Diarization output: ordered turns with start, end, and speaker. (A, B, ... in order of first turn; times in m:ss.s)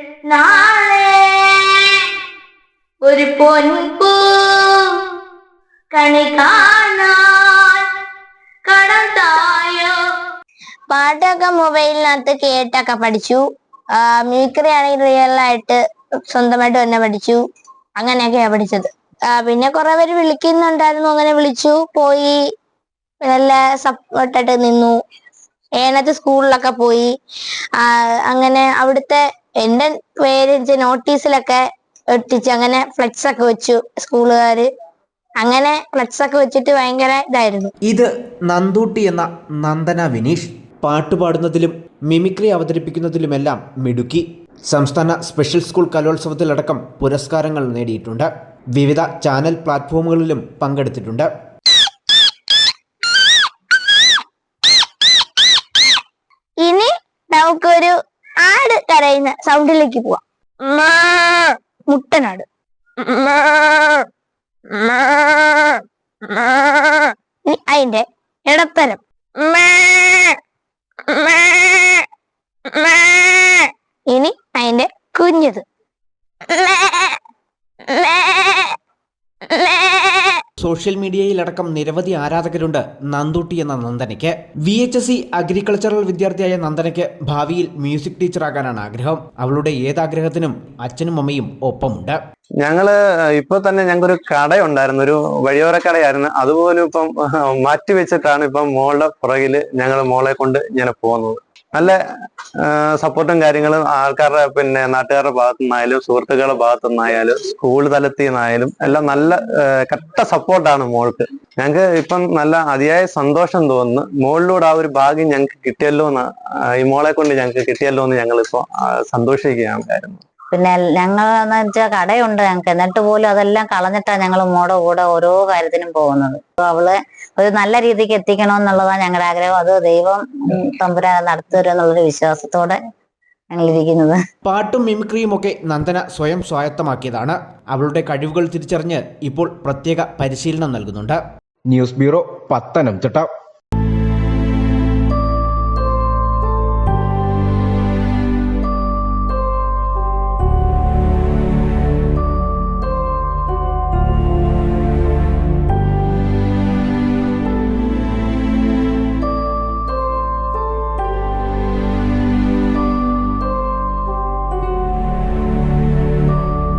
0:00.3-0:02.0 A
0:03.0-0:05.0 A
0:05.9-0:07.9 A
0:08.6-0:10.0 A
0:10.9-0:13.4 A
0:14.0-0:17.4 A
0:18.0-0:22.4 A
0:23.2-0:25.0 A
0:25.8-0:27.1 A
0:27.8-0:31.6 A
0:32.1-0:34.7 A
0:35.4-0:37.7 A
0:37.8-0:51.3 B
0:56.6-1:02.4 A
1:03.0-1:04.1 A
1:04.7-1:10.4 A
1:11.0-1:12.0 A
1:12.7-1:15.6 A
1:16.5-1:17.2 A
1:17.8-1:18.8 A
1:19.4-1:20.4 A
1:20.6-1:32.2 B
1:32.6-1:42.0 C
1:42.6-1:56.2 C
1:56.8-2:00.2 C
2:00.5-2:12.8 D
2:13.5-2:14.2 D
2:14.4-2:21.2 B
2:21.7-2:23.3 B